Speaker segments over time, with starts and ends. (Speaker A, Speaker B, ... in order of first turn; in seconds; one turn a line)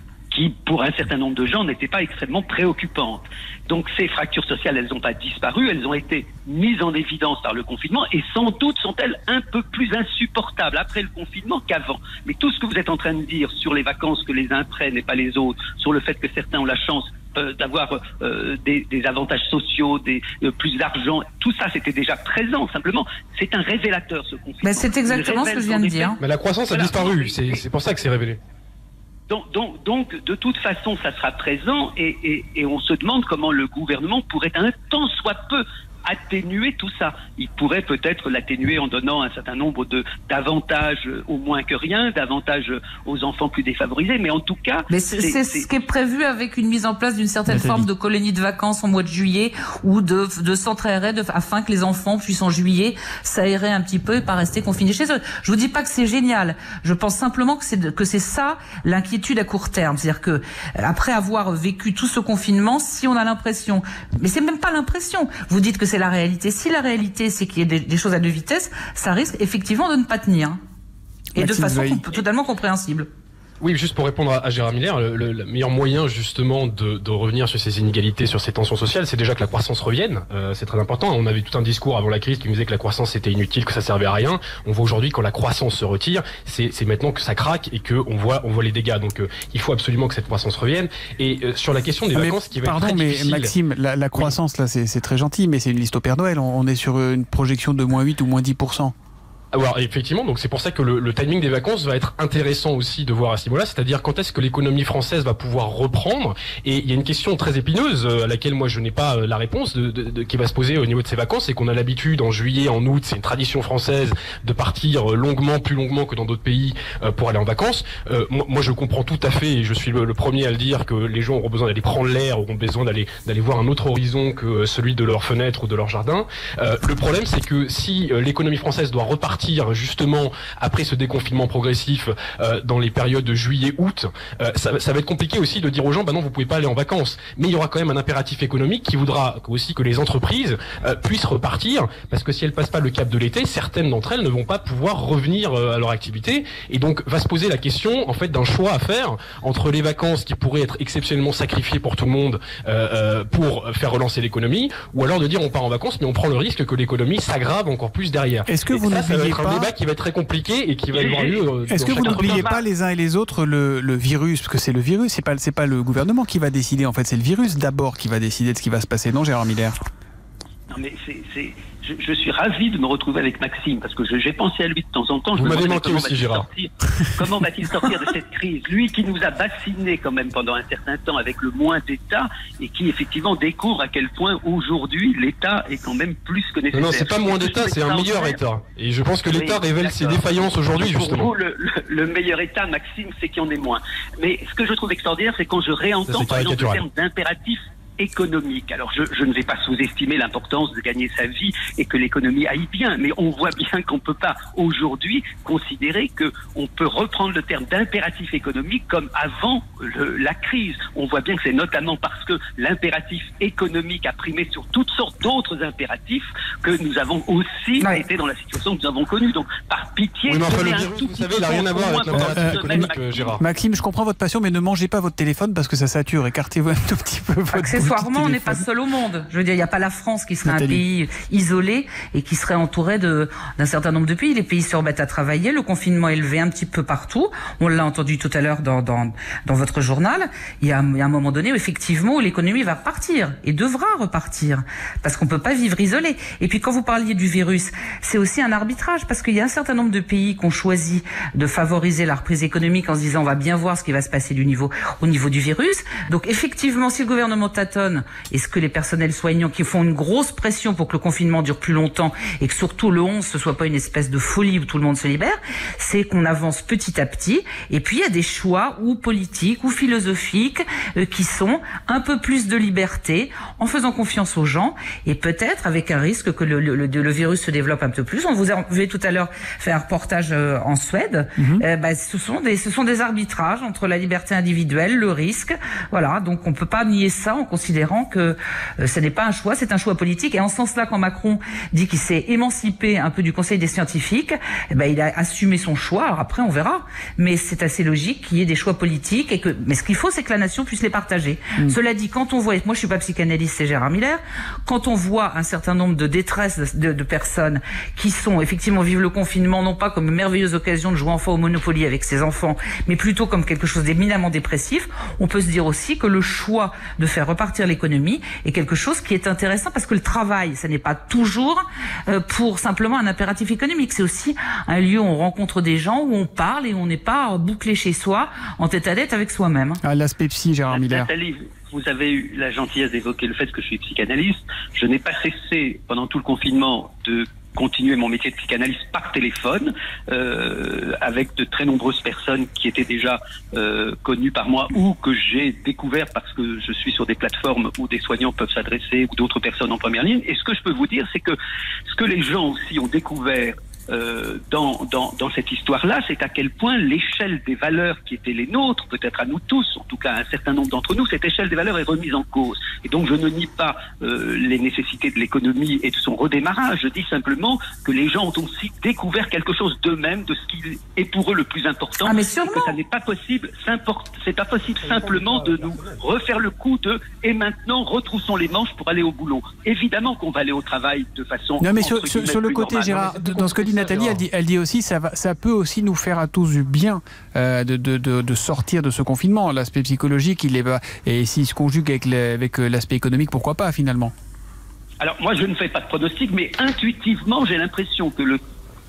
Speaker A: 0.3-27.6
Speaker B: 24.6-26.2
Speaker C: 26.2-28.4
Speaker A: 29.3-45.7
Speaker B: 44.9-70.6
Speaker D: 47.5-47.9
Speaker D: 71.3-72.1
Speaker B: 71.4-73.1
Speaker C: 73.6-93.5
Speaker D: 92.1-98.9
Speaker C: 99.5-162.6
Speaker D: 158.5-159.7
Speaker A: 160.9-162.6
Speaker D: 161.7-169.8
Speaker A: 170.7-188.4
Speaker C: 175.3-176.5
Speaker C: 186.7-191.3
Speaker A: 189.3-223.4
Speaker C: 196.1-196.8
Speaker C: 220.3-223.4
Speaker D: 222.1-228.6
Speaker B: 227.5-329.8
Speaker D: 230.4-230.8
Speaker D: 281.4-281.6
Speaker D: 329.8-331.1
Speaker A: 330.7-351.4
Speaker A: 351.9-383.7
Speaker B: 372.0-372.8
Speaker C: 374.8-376.0
Speaker D: 381.6-394.1
Speaker C: 383.1-384.2
Speaker A: 395.0-398.4